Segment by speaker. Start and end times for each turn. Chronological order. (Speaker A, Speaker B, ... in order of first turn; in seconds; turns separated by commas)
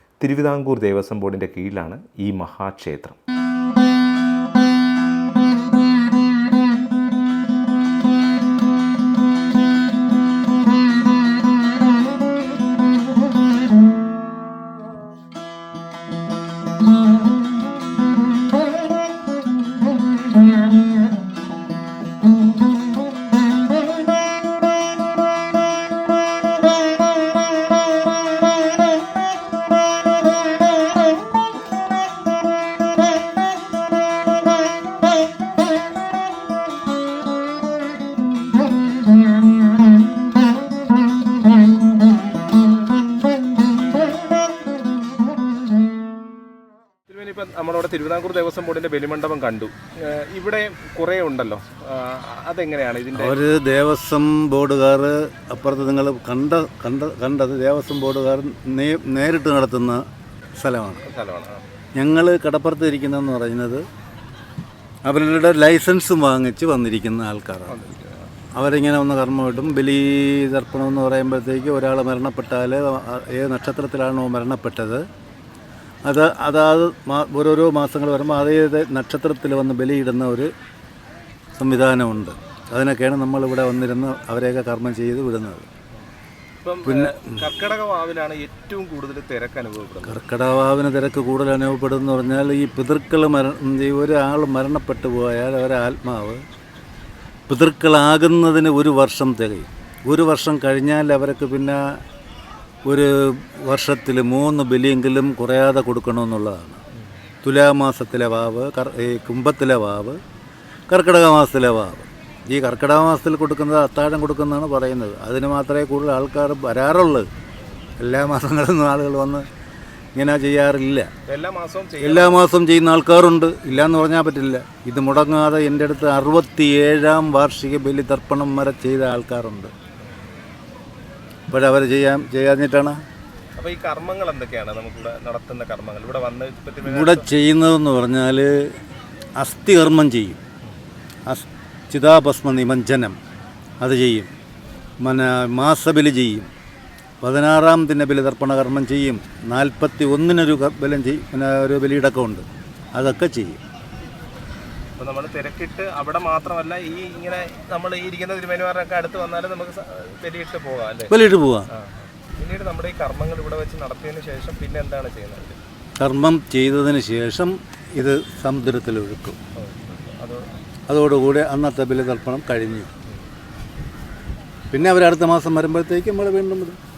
Speaker A: 0.2-3.2, Speaker B: 47.1-53.4, Speaker C: 53.1-60.0, Speaker C: 60.5-61.1, Speaker B: 61.0-61.6, Speaker C: 62.0-63.8, Speaker C: 65.0-67.8, Speaker B: 67.7-68.3, Speaker C: 68.5-75.0, Speaker C: 76.0-80.5, Speaker C: 81.5-85.7, Speaker B: 86.6-90.2, Speaker C: 86.8-87.4, Speaker C: 90.0-96.4, Speaker C: 97.5-101.8, Speaker C: 102.8-106.8, Speaker C: 107.4-110.2, Speaker C: 110.9-117.3, Speaker C: 118.0-119.5, Speaker C: 120.1-121.1, Speaker B: 121.2-122.4, Speaker C: 122.0-129.7, Speaker C: 131.5-133.0, Speaker B: 133.6-137.3, Speaker C: 136.8-138.7, Speaker C: 139.4-140.4, Speaker C: 141.3-143.2, Speaker C: 143.8-144.3, Speaker C: 145.0-146.5, Speaker C: 147.2-153.6, Speaker B: 155.0-161.1, Speaker C: 161.1-161.7, Speaker B: 161.7-165.6, Speaker C: 166.0-169.4, Speaker B: 169.6-170.6, Speaker C: 170.9-172.9, Speaker C: 174.7-176.8